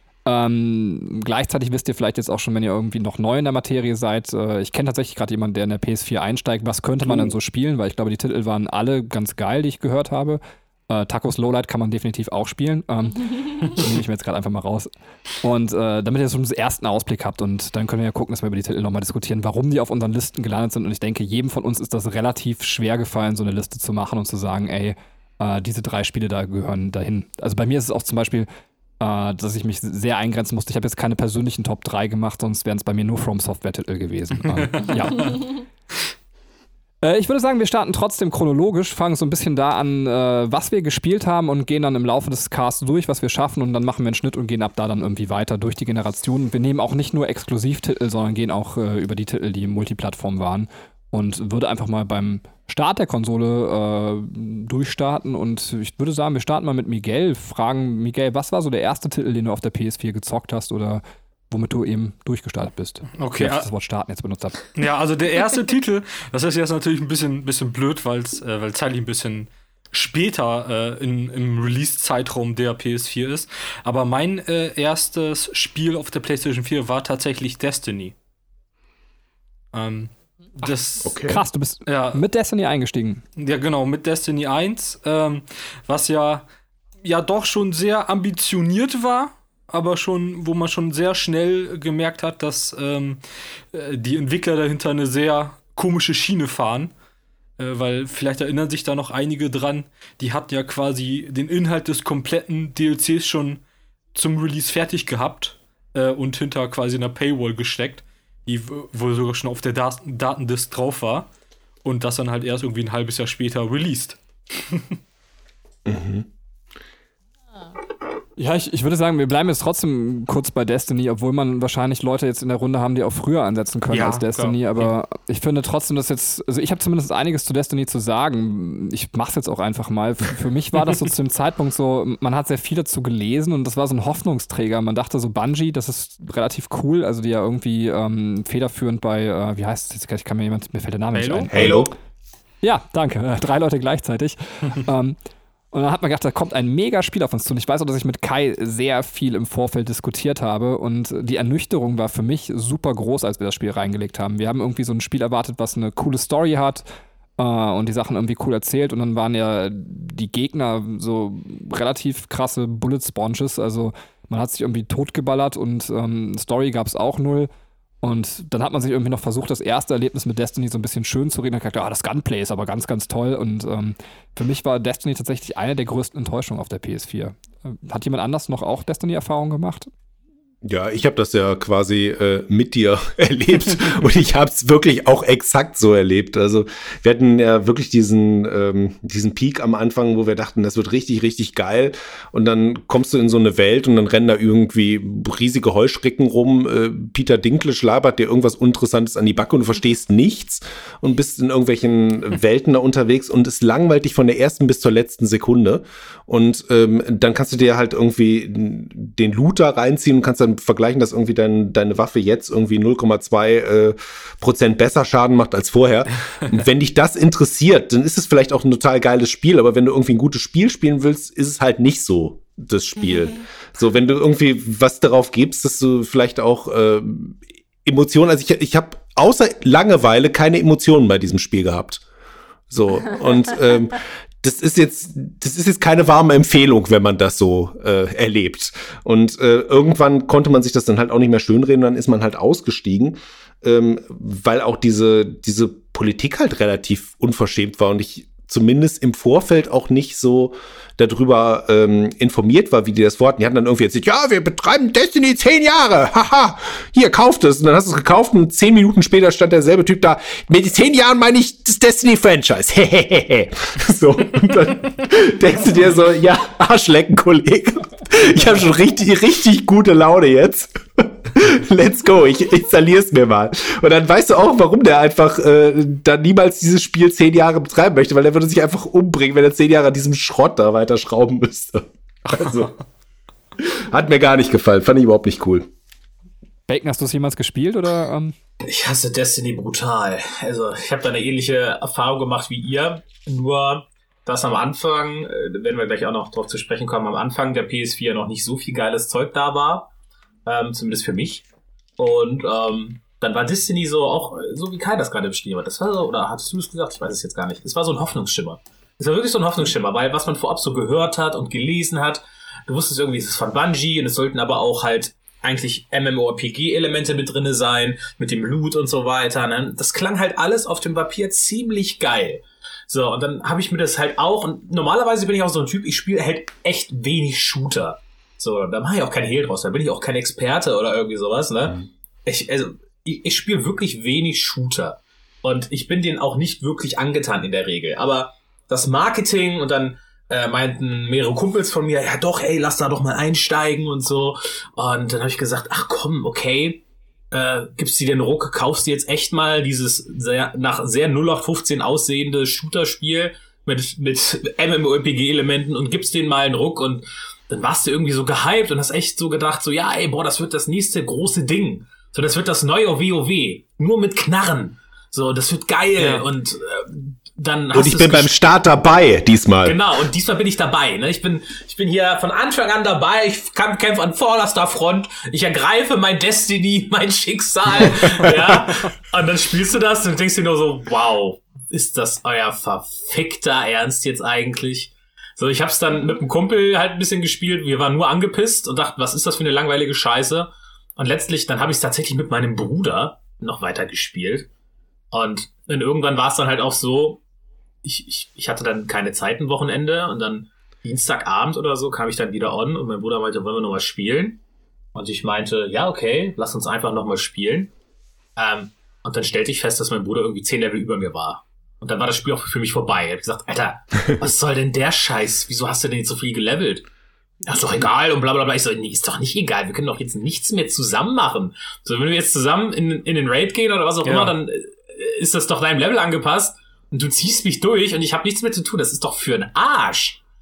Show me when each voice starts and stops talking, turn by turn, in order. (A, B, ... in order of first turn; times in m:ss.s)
0:00.3-0:14.9 A
0:15.4-0:28.5 A
0:29.0-0:35.5 A
0:34.4-0:35.4 B
0:37.0-1:04.7 A
1:03.1-1:03.7 B
1:04.8-1:18.2 B
1:19.7-1:21.2 B
1:21.0-1:21.4 C
1:21.2-1:23.2 A
1:21.9-1:22.2 B
1:23.4-1:26.5 B
1:27.0-1:36.9 B
1:37.6-1:43.6 B
1:44.1-1:51.3 B
1:51.8-1:54.8 B
1:55.9-1:56.3 C
1:58.4-2:21.6 A
2:03.9-2:04.9 B
2:21.1-2:21.8 B
2:21.5-2:21.9 C
2:21.6-2:21.9 D
2:22.6-2:25.2 A
2:25.7-2:36.8 A
2:37.4-2:47.5 A
2:48.0-2:59.9 A
3:00.6-3:52.0 C
3:52.7-4:42.7 C
4:43.6-4:45.7 C
4:46.7-4:48.3 A
4:48.6-4:59.9 D
5:00.5-5:01.4 D
5:02.0-6:08.7 D
6:06.0-6:06.2 B
6:07.7-6:09.8 C
6:09.6-6:34.5 D
6:35.1-6:37.2 D
6:37.8-6:44.4 D
6:45.0-6:47.7 D
6:48.4-6:56.8 D
6:57.4-7:10.2 D
7:04.0-7:04.4 B